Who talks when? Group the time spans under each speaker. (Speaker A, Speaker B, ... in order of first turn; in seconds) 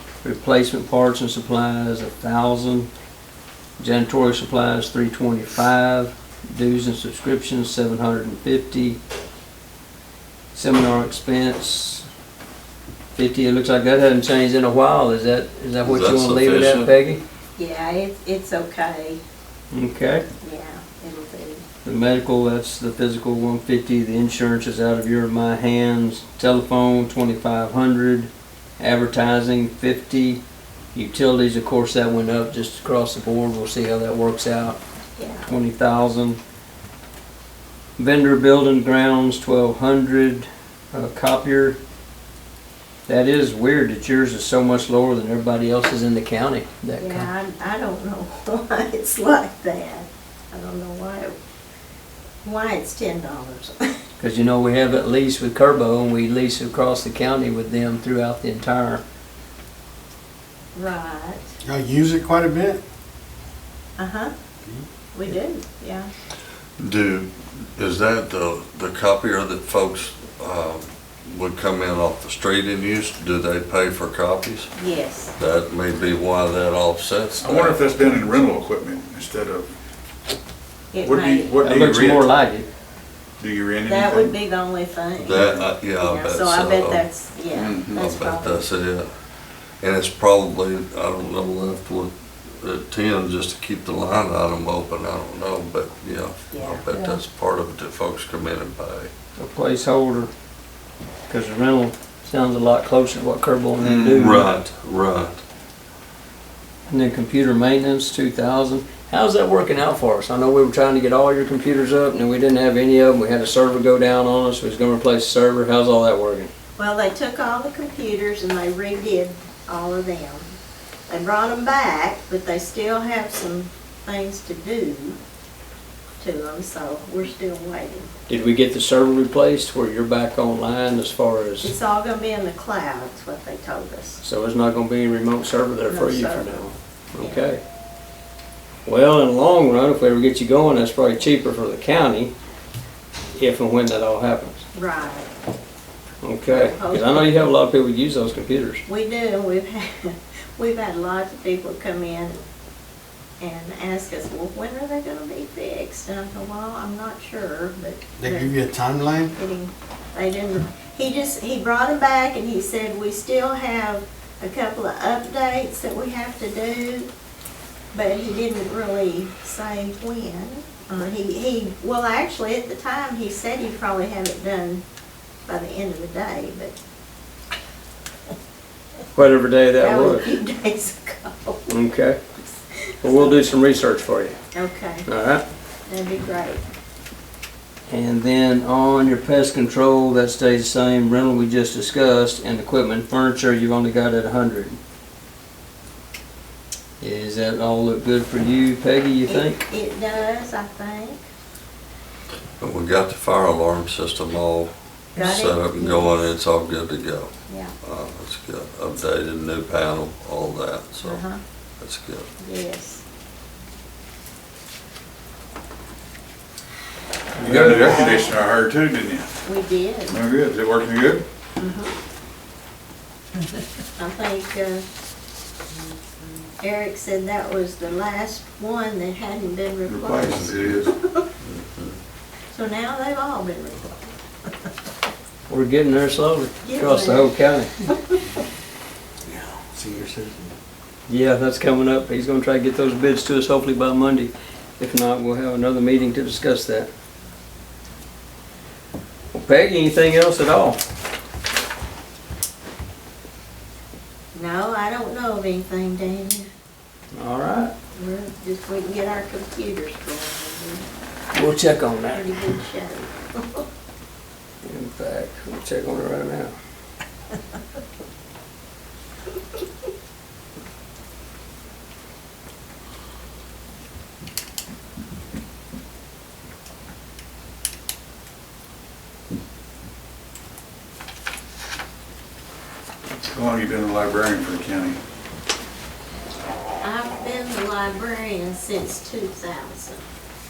Speaker A: 0.2-2.9, 3.8-9.0, 10.5-12.1, 13.2-17.2, 19.7-20.2, 21.8-30.4, 30.9-34.8, 35.5-36.4, 38.0-41.8, 43.1-47.3, 54.2-59.0, 81.6-82.7, 96.9-97.2, 99.4-100.3, 101.3-104.5, 106.9-116.5, 128.3-131.7, 134.2-137.6, 138.8-142.3, 143.3-144.6, 146.2-148.8, 179.2-180.3, 181.7-182.2, 183.0-184.4, 185.1-185.4, 187.9-194.8, 197.0-199.6, 217.3-218.2, 235.5-237.8, 241.1-246.9, 249.3-250.8, 257.1-257.7, 261.3-262.3, 264.6-266.6
Speaker B: 15.8-16.9, 66.8-74.7, 75.4-77.8, 85.2-87.1, 87.9-89.1, 89.8-99.1, 103.8-105.4, 202.6-211.2, 211.8-212.3, 231.4-232.0
Speaker C: 17.6-19.2, 20.4-21.6, 35.2-35.5, 47.0-51.3, 52.4-53.7, 60.8-61.5, 64.0-64.3, 65.1-66.1, 74.8-75.3, 80.9-81.5, 83.9-85.4, 86.0-88.7, 96.5-96.8, 116.8-120.5, 121.1-125.2, 126.2-128.4, 131.6-134.2, 135.9-136.7, 137.2-137.5, 144.7-145.3, 146.5-147.3, 148.9-152.4, 153.4-158.6, 159.3-167.1, 167.9-174.8, 175.5-176.8, 179.8-181.8, 183.0-183.4, 184.5-185.1, 185.9-186.6, 199.2-201.2, 205.2-206.3, 211.0-211.4, 212.4-213.0, 217.7-218.2, 219.4-220.2, 221.6-221.9, 224.0-224.8, 226.6-231.2, 232.5-233.9, 236.6-237.3, 237.9-238.2, 254.3-256.5, 257.9-260.9, 262.1-263.6, 286.8-290.0
Speaker D: 61.6-62.8, 158.2-159.3, 239.3-240.5
Speaker E: 77.4-79.7, 81.0-82.2, 83.4-84.3, 85.3-85.7, 87.5-87.9, 217.4-219.3, 220.1-221.2, 229.8-230.9, 283.2-285.0